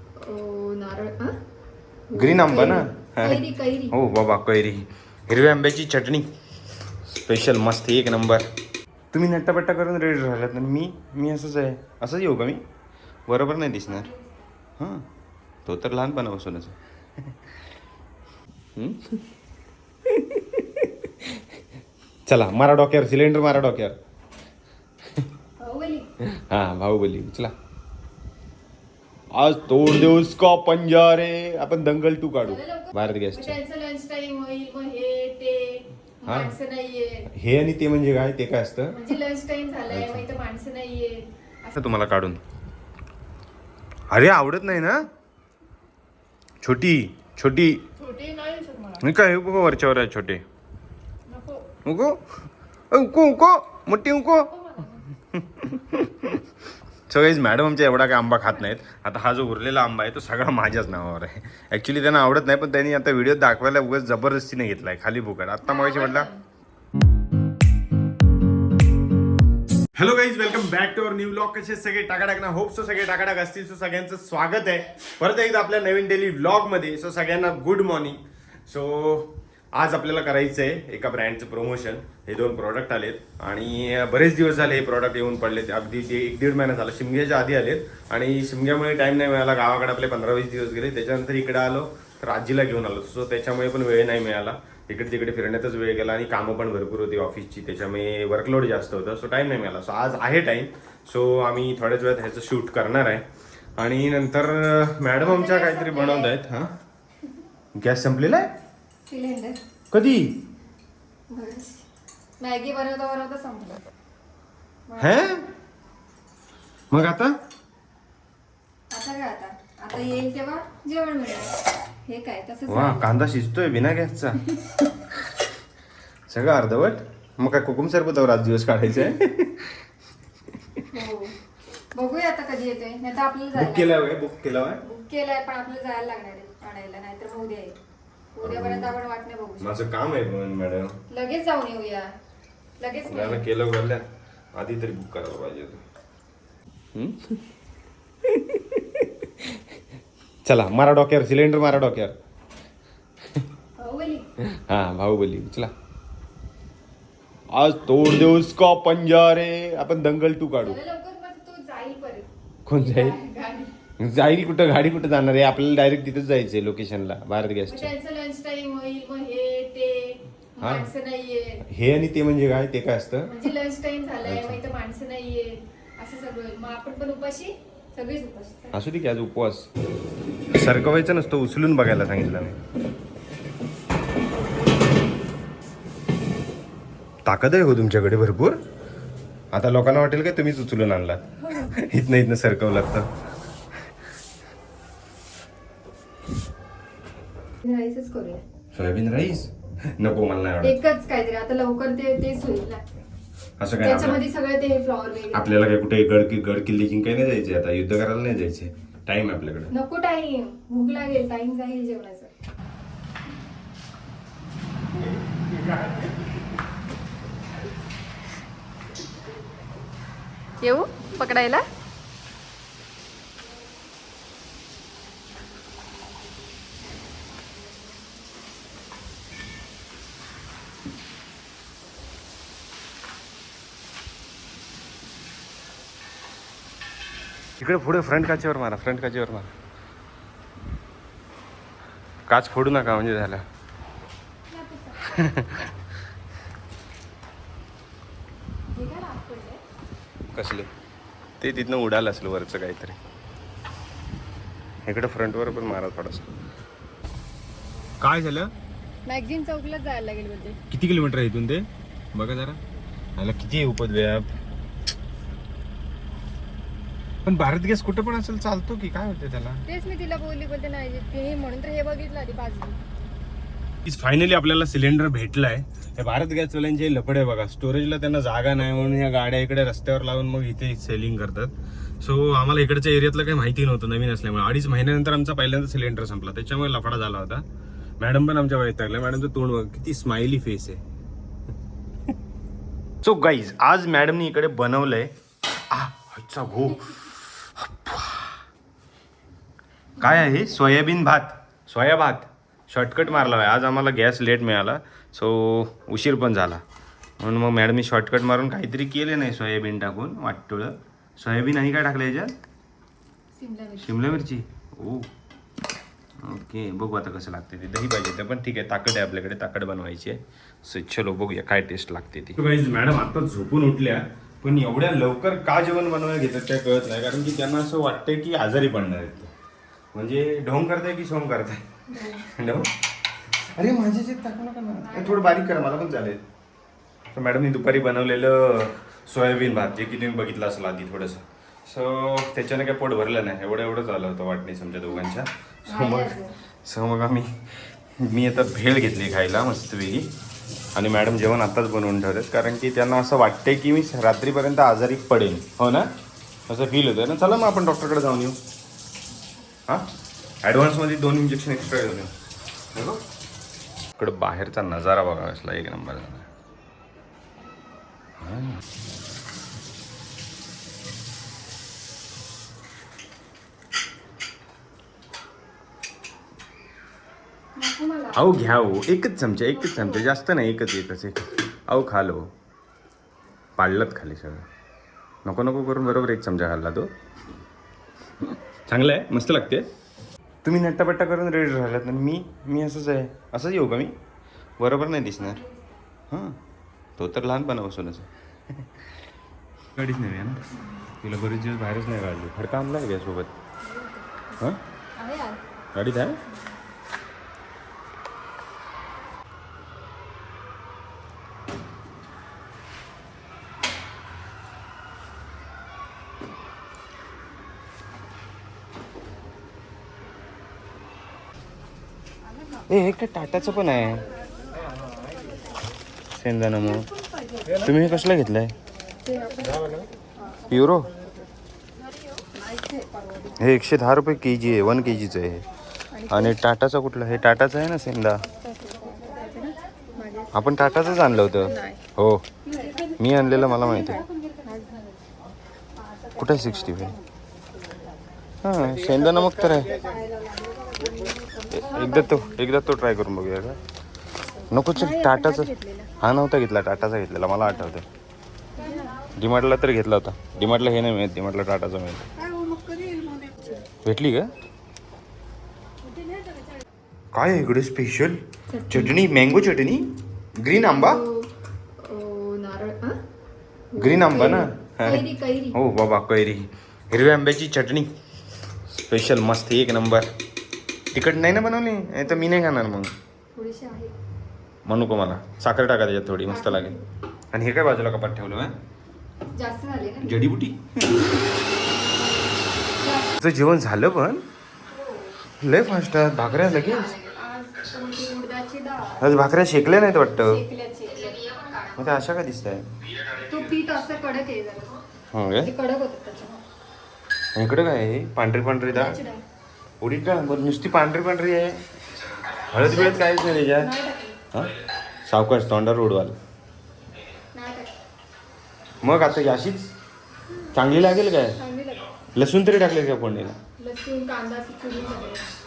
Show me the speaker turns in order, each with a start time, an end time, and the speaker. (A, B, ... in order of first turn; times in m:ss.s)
0:00.2-0:01.4 A
0:02.1-0:04.0 A
0:02.2-0:06.3 B
0:07.1-0:08.4 B
0:09.1-0:12.6 B
0:13.3-0:14.1 B
0:13.9-0:14.4 A
0:14.8-0:15.1 B
0:15.7-0:16.8 B
0:18.8-0:19.2 B
0:20.1-0:21.3 B
0:22.3-0:24.0 B
0:25.6-0:26.1 A
0:26.3-0:27.5 B
0:29.3-0:33.6 B
0:32.4-0:37.3 A
0:36.3-0:36.5 B
0:37.3-0:39.0 B
0:38.9-0:41.8 A
0:39.9-0:40.2 B
0:41.8-0:42.4 B
0:44.1-0:45.1 B
0:46.6-0:47.8 B
0:48.0-0:49.0 A
0:49.0-0:50.4 B
0:51.3-0:51.7 A
0:51.8-0:52.2 B
0:52.9-0:54.5 B
0:54.5-0:55.0 A
0:55.2-0:56.4 B
0:57.1-1:06.3 B
1:05.6-1:06.4 A
1:10.0-1:43.2 B
1:43.8-1:46.8 B
1:45.2-1:46.3 A
1:47.8-1:48.5 B
1:49.1-1:49.6 A
1:49.9-1:50.4 B
1:51.3-1:51.9 A
1:52.4-1:53.9 A
1:54.9-1:55.4 A
1:55.0-1:55.4 B
1:56.9-1:57.4 B
1:58.9-2:03.1 A
2:02.7-2:04.5 B
2:06.3-2:09.7 B
2:10.9-2:11.4 A
2:11.9-2:14.0 A
2:13.5-2:14.8 B
2:14.8-2:17.8 A
2:18.4-2:19.7 A
2:18.4-2:18.9 B
2:19.6-2:21.0 B
2:21.1-2:22.1 A
2:22.8-2:23.4 A
2:23.1-2:24.0 B
2:24.6-2:25.8 B
2:27.0-2:27.4 B
2:28.2-2:29.5 B
2:30.5-2:32.2 B
2:33.8-2:34.3 A
2:34.5-2:35.7 B
2:37.5-2:40.8 B
2:40.6-2:43.7 A
2:42.7-2:43.2 B
2:44.0-2:47.9 B
2:47.7-2:51.6 A
2:50.6-2:50.9 B
2:51.7-2:53.3 B
2:53.3-2:58.8 A
2:54.2-2:54.6 B
2:58.7-2:59.7 B
3:00.5-3:02.6 B
3:07.2-3:08.6 B
3:09.5-3:13.1 B
3:17.6-3:18.4 A
3:18.7-3:20.8 B
3:20.6-3:22.8 A
3:23.6-3:24.2 B
3:23.8-3:25.5 A
3:25.3-3:29.7 B
3:29.7-3:32.3 A
3:35.4-3:35.7 B
3:40.6-3:41.6 A
3:57.6-3:59.5 B
4:02.3-4:03.4 B
4:04.5-4:05.2 A
4:05.0-4:05.7 B
4:08.7-4:09.6 A
4:10.3-4:10.7 B
4:11.4-4:13.0 B
4:14.9-4:16.4 B
4:18.0-4:18.5 B
4:19.1-4:20.6 A
4:20.7-4:22.6 B
4:23.2-4:24.3 B
4:27.2-4:29.6 B
4:29.7-4:32.8 A
4:33.8-4:47.4 B
4:48.0-4:50.8 B
4:53.0-4:55.1 B
4:55.7-4:58.4 B
5:00.0-5:06.6 B
5:07.2-5:12.4 B
5:13.4-5:14.1 A
5:13.8-5:15.1 B
5:16.2-5:29.3 B
5:29.9-5:32.7 B
5:31.9-5:32.3 A
5:33.5-5:36.2 B
5:34.8-5:35.4 A
5:37.1-5:47.4 B
5:45.7-5:46.4 A
5:48.0-5:50.1 B
5:50.8-5:55.9 B
5:56.5-5:58.4 B
6:00.4-6:02.1 B
6:02.7-6:03.0 B
6:04.0-6:06.3 B
6:08.2-6:08.6 B
6:17.6-6:18.5 A
6:18.1-6:22.3 B
6:19.5-6:20.1 A
6:23.6-6:24.5 B
6:25.2-6:26.9 B
6:28.2-6:29.7 B
6:30.4-6:34.0 B
6:34.6-6:35.4 B
6:36.1-6:36.4 B
6:37.0-6:38.1 B
6:39.7-6:43.3 B
6:43.6-6:44.5 A
6:45.0-6:45.4 A
6:45.7-6:46.2 B
7:02.7-7:04.1 B
7:06.2-7:06.9 B
7:07.5-7:08.5 B
7:09.0-7:09.8 A
7:10.5-7:10.9 B
7:12.3-7:13.4 A
7:13.4-7:15.4 B
7:15.9-7:16.4 A
7:16.1-7:18.2 B
7:18.4-7:20.5 A
7:20.3-7:22.2 B
7:21.3-7:21.8 A
7:22.4-7:24.9 A
7:23.0-7:24.1 B
7:26.2-7:27.0 B
7:28.4-7:29.8 B
7:29.7-7:32.4 A
7:31.5-7:33.6 B
7:34.5-7:37.9 B
7:34.7-7:35.9 A
7:38.6-7:39.0 A
7:39.2-7:42.1 B
7:42.3-7:43.6 A
7:43.8-7:44.3 B
7:47.1-7:51.0 B
7:48.5-7:49.0 A
7:50.5-7:53.0 A
7:53.7-7:55.6 A
7:53.8-7:57.9 B
7:58.7-8:00.1 B
8:00.9-8:02.9 B
8:03.3-8:03.9 A
8:04.7-8:06.7 B
8:06.3-8:06.9 A
8:07.3-8:08.6 B
8:09.4-8:10.3 A
8:10.0-8:11.1 B
8:12.8-8:13.2 A
8:13.2-8:14.2 B
8:14.7-8:15.1 A
8:15.4-8:17.0 B
8:16.3-8:19.2 A
8:19.0-8:20.4 B
8:20.0-8:21.8 A
8:21.8-8:22.7 B
8:23.1-8:24.8 A
8:25.1-8:25.5 B
8:25.4-8:26.4 A
8:27.4-8:29.0 B
8:28.7-8:29.2 A
8:29.8-8:31.6 B
8:32.4-8:33.7 B
8:32.6-8:34.2 A
8:35.1-8:36.2 B
8:37.3-8:37.7 A
8:38.8-8:39.7 B
8:40.5-8:41.4 B
8:41.4-8:41.9 A
8:42.1-8:43.4 B
8:43.6-8:45.3 A